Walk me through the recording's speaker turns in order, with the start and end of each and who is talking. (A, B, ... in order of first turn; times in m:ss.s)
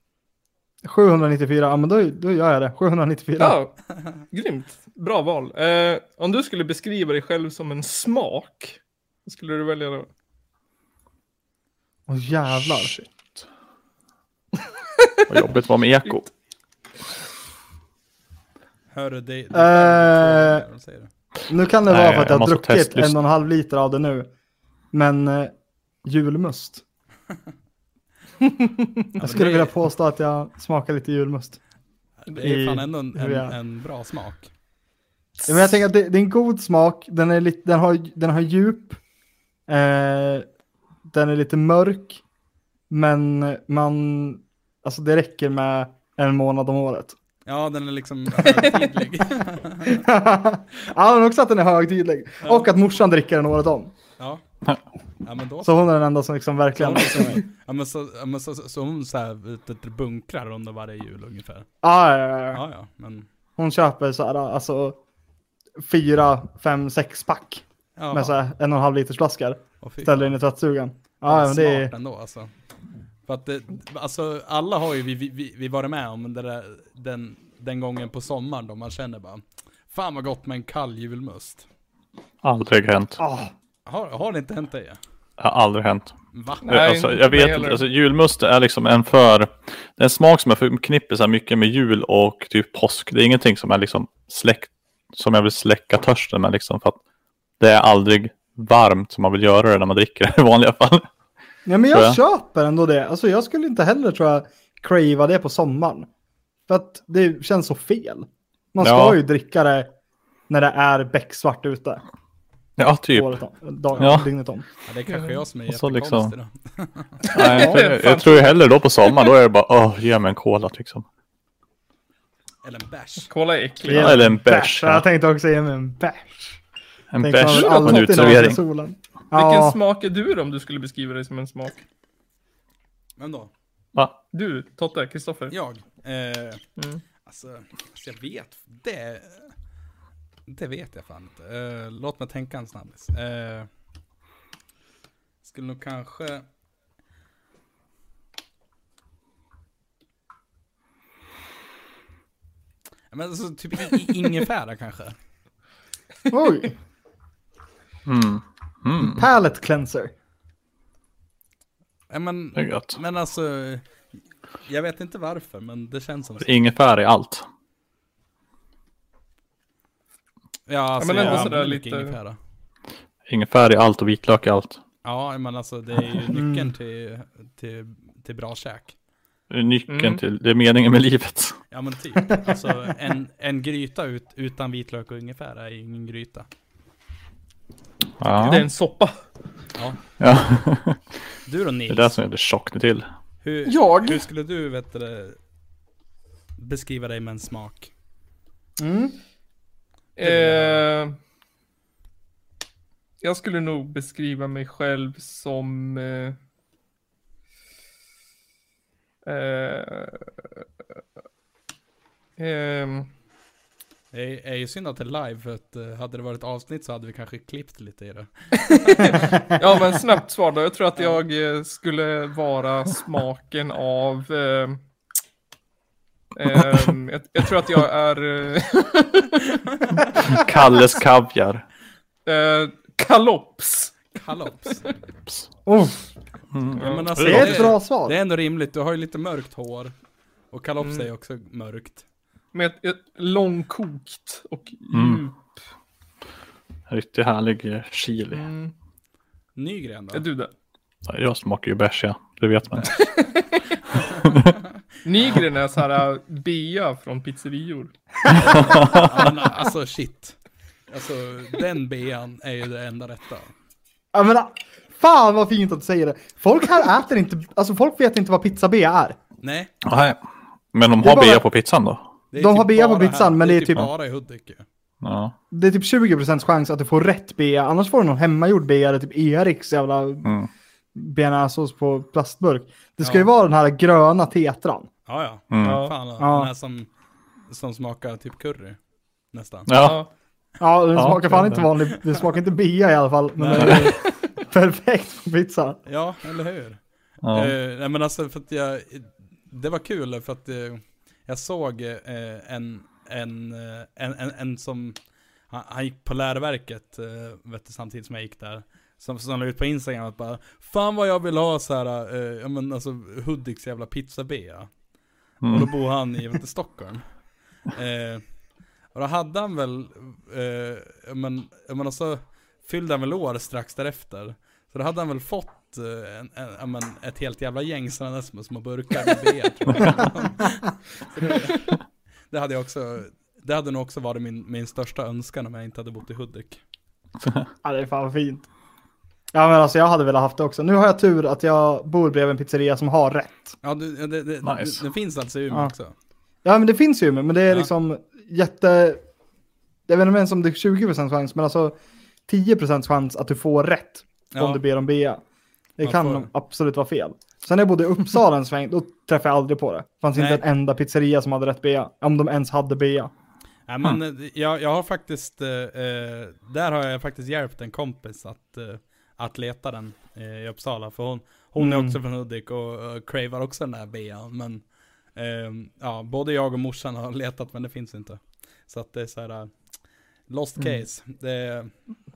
0:00.8-0:03.6 A
0:03.4-0:10.1 B
0:12.1-0:13.0 A
0:12.5-0:13.1 C
0:15.3-0:16.2 C
0:18.9-0:21.1 D
0:19.5-0:20.6 A
0:21.5-0:24.3 A
0:21.9-0:23.1 C
0:24.9-0:26.8 A
0:29.2-0:29.7 D
0:29.2-0:31.6 A
0:32.2-0:34.5 D
0:32.4-0:33.6 A
0:35.5-0:39.0 A
0:39.7-0:40.5 A
0:41.1-0:42.2 A
0:42.9-0:47.2 A
0:47.5-0:50.0 D
0:49.9-0:53.9 A
0:52.4-0:52.7 D
0:55.2-0:55.7 D
0:55.6-0:57.4 A
0:56.8-1:01.7 D
1:01.8-1:02.6 A
1:02.5-1:03.3 D
1:03.6-1:05.0 A
1:05.8-1:11.9 A
1:08.0-1:08.4 D
1:09.8-1:10.4 D
1:11.2-1:12.5 D
1:13.3-1:21.7 D
1:22.4-1:23.2 C
1:23.2-1:23.5 A
1:23.9-1:25.0 D
1:25.4-1:26.2 C
1:26.3-1:27.0 D
1:26.6-1:27.8 B
1:26.7-1:37.0 C
1:37.6-1:41.1 C
1:41.7-1:46.1 A
1:41.9-1:42.2 C
1:46.7-1:49.9 A
1:48.8-1:49.2 C
1:50.5-1:52.0 A
1:52.8-1:53.4 C
1:53.1-1:54.6 A
1:54.0-1:54.3 C
1:54.9-1:57.2 D
1:55.7-1:56.3 C
1:57.3-2:01.0 C
1:57.3-1:59.3 B
2:02.6-2:03.3 D
2:03.3-2:04.2 B
2:03.9-2:06.6 A
2:03.9-2:05.0 C
2:07.1-2:08.6 C
2:07.2-2:09.8 A
2:07.4-2:08.5 B
2:09.3-2:11.8 B
2:13.2-2:13.5 D
2:14.3-2:15.6 B
2:15.5-2:16.6 D
2:16.8-2:17.0 B
2:17.2-2:19.6 D
2:20.5-2:23.7 D
2:25.4-2:26.4 D
2:33.1-2:35.2 D
2:36.3-2:36.8 A
2:38.1-2:39.3 C
2:39.0-2:40.1 A
2:42.1-2:44.0 D
2:42.6-2:43.0 C
2:44.6-2:46.5 D
2:46.4-2:47.4 C
2:50.7-2:52.4 D
2:51.0-2:52.2 B
2:53.3-2:54.8 C
2:55.0-2:59.0 D
2:56.3-2:56.7 A
2:59.5-3:01.6 C
2:59.9-3:00.2 B
3:01.7-3:06.5 D
3:08.2-3:08.6 C
3:08.3-3:09.2 B
3:09.8-3:10.0 D
3:10.2-3:11.0 C
3:11.5-3:12.2 D
3:11.9-3:13.1 C
3:13.4-3:15.4 D
3:13.7-3:14.2 B
3:16.6-3:17.9 D
3:18.8-3:19.2 A
3:20.2-3:21.2 B
3:20.2-3:20.9 D
3:23.2-3:26.4 B
3:29.2-3:30.6 B
3:32.4-3:33.1 B
3:34.1-3:39.3 D
3:38.7-3:44.8 B
3:41.0-3:41.2 D
3:46.4-3:49.6 B
3:50.2-3:51.6 C
3:52.3-3:54.0 B
3:54.2-3:54.9 D
3:55.7-3:56.1 A
3:56.5-3:57.5 C
3:56.8-4:00.0 D
3:56.8-3:57.4 B
3:57.2-3:58.2 A
4:00.5-4:02.0 D
4:00.8-4:01.1 B
4:02.5-4:05.5 B
4:04.9-4:05.2 C
4:06.9-4:08.5 C
4:08.3-4:08.7 B
4:09.6-4:10.3 D
4:10.1-4:10.5 B
4:11.1-4:13.1 C
4:12.9-4:13.8 B
4:15.0-4:17.9 B
4:15.2-4:15.5 D
4:18.4-4:23.5 D
4:24.1-4:29.2 A
4:29.4-4:29.7 D
4:29.9-4:30.2 C
4:30.7-4:32.0 C
4:31.0-4:31.4 A
4:32.3-4:34.6 D
4:32.4-4:33.9 A
4:35.0-4:35.3 C
4:35.5-4:40.3 A
4:41.0-4:44.9 A
4:43.0-4:43.3 D
4:45.1-4:46.9 D
4:45.5-4:45.8 C
4:45.6-4:45.9 B
4:46.2-4:46.5 A
4:47.5-4:48.8 D
4:49.3-4:49.7 D
4:49.7-4:50.0 C
4:49.8-4:50.1 B
4:50.6-4:55.8 A
4:51.0-4:51.7 C
4:53.4-4:54.0 D
4:55.8-5:14.8 D
4:57.2-4:57.5 C
5:15.4-5:36.6 D
5:15.4-5:15.7 C
5:37.6-5:38.5 A
5:39.3-5:43.6 A
5:43.6-5:45.9 D
5:44.4-5:44.8 C
5:46.4-5:49.0 A
5:49.9-5:51.8 A
5:52.3-5:55.2 A
5:54.3-5:54.6 D
5:55.8-6:03.1 A
5:55.8-5:56.3 D
6:00.1-6:00.4 D
6:03.7-6:19.5 D
6:11.6-6:12.0 A
6:20.3-6:21.7 D